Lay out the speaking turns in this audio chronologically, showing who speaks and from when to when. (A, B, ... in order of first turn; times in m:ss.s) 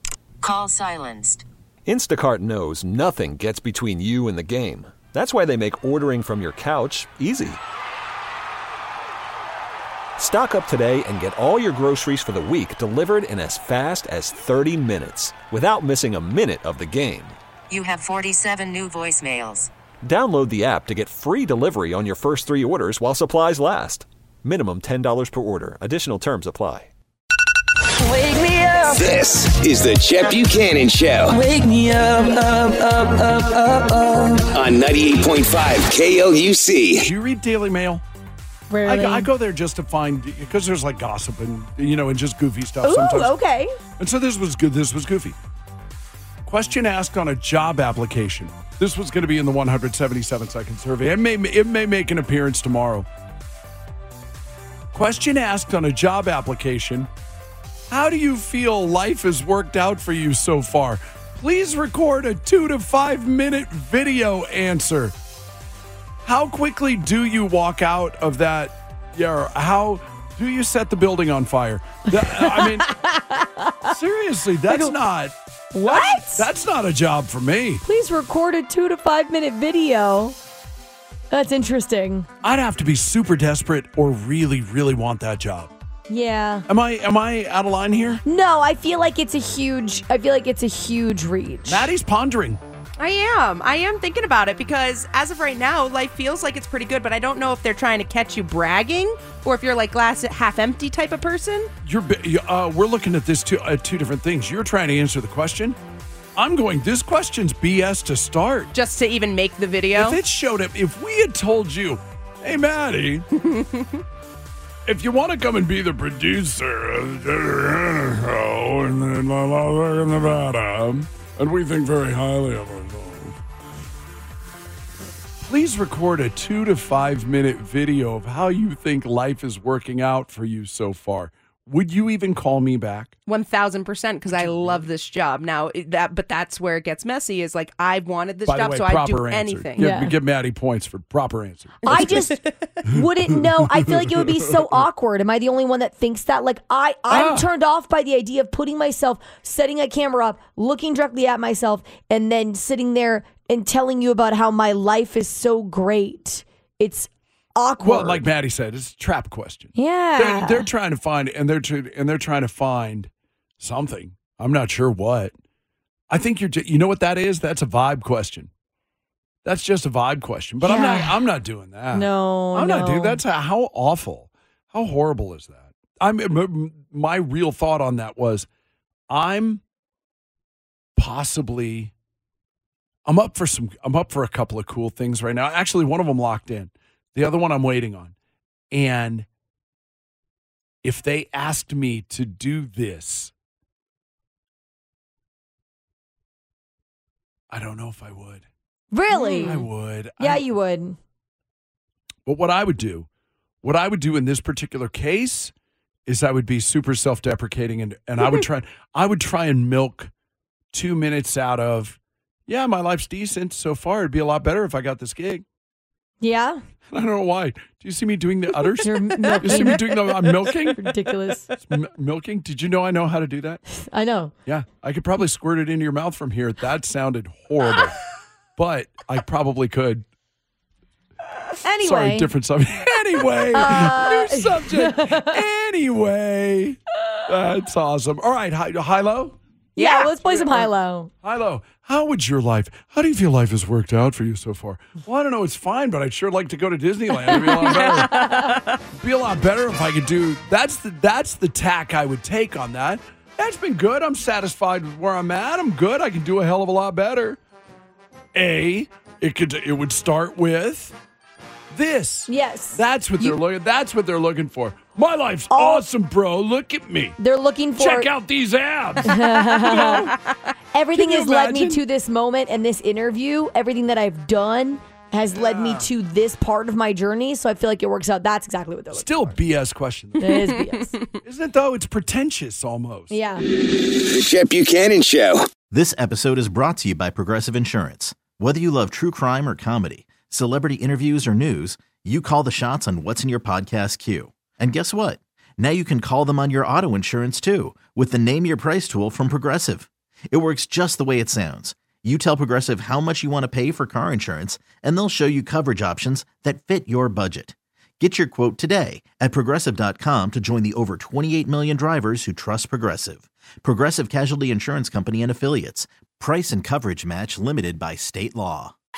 0:00.4-0:01.4 A
0:01.9-0:07.6 B
0:10.2-0:17.4 B
0:17.7-0:19.7 A
0:20.0-0:26.9 B
0:28.2-0:28.8 C
0:28.9-0:31.4 D
0:31.4-0:34.4 C
0:34.5-0:37.1 D
0:37.0-0:38.0 E
0:38.7-0:39.3 F
0:38.8-0:43.4 E
0:42.8-0:43.8 F
0:44.0-0:45.4 E
0:46.4-0:53.1 E
0:54.9-0:57.1 E
0:57.9-1:05.2 E
1:06.2-1:12.9 E
1:12.2-1:13.9 F
1:13.8-1:17.8 E
1:14.7-1:14.9 F
1:15.7-1:16.5 F
1:17.8-1:20.4 F
1:21.3-1:22.3 F
1:22.4-1:25.7 E
1:26.1-1:26.7 F
1:26.7-1:28.2 E
1:28.3-1:31.9 F
1:31.7-1:32.6 E
1:33.0-1:41.7 G
1:41.8-1:45.8 E
1:46.4-1:48.7 E
1:48.7-1:50.2 G
1:50.0-1:53.3 E
1:53.4-1:54.0 G
1:54.9-2:03.4 E
2:05.4-2:13.2 E
2:13.3-2:19.9 G
2:14.3-2:14.9 E
2:18.4-2:22.3 E
2:19.8-2:20.1 F
2:21.9-2:22.4 G
2:21.9-2:38.2 F
2:22.9-2:24.2 E
2:27.1-2:27.5 E
2:37.8-2:43.1 E
2:39.8-2:40.7 F
2:43.6-2:45.3 E
2:46.1-2:48.5 E
2:49.4-2:58.5 E
2:50.6-2:51.2 F
2:51.9-2:53.2 F
2:59.1-2:59.6 E
3:01.0-3:01.9 E
3:03.1-3:08.1 E
3:08.7-3:09.3 E
3:10.8-3:13.3 E
3:17.5-3:18.4 E
3:18.9-3:19.7 F
3:19.1-3:20.5 E
3:20.2-3:21.0 F
3:22.3-3:23.1 E
3:23.6-3:25.5 E
3:26.1-3:30.1 E
3:30.7-3:35.4 E
3:36.2-3:36.6 F
3:36.9-3:40.9 E
3:38.8-3:41.5 F
3:39.4-3:39.9 G
3:41.7-3:43.6 E
3:43.7-3:44.4 F
3:44.5-3:48.0 E
3:48.6-3:50.0 E
3:51.6-3:52.3 F
3:51.8-3:59.4 E
3:53.5-3:55.4 F
3:59.8-4:00.5 G
3:59.8-4:01.1 F
4:00.2-4:00.6 E
4:01.2-4:17.4 E
4:07.3-4:08.4 F
4:18.3-4:21.0 E
4:21.7-4:27.2 E
4:22.3-4:23.4 F
4:25.5-4:25.8 F
4:27.2-4:28.1 F
4:27.8-4:30.2 E
4:29.0-4:30.1 F
4:29.1-4:30.3 G
4:30.7-4:39.4 F
4:30.9-4:31.8 E
4:38.9-4:40.4 E
4:40.2-4:40.9 F
4:40.4-4:41.1 G
4:41.2-4:43.2 E
4:43.1-4:43.4 F
4:43.8-4:45.4 D
4:45.7-5:18.7 H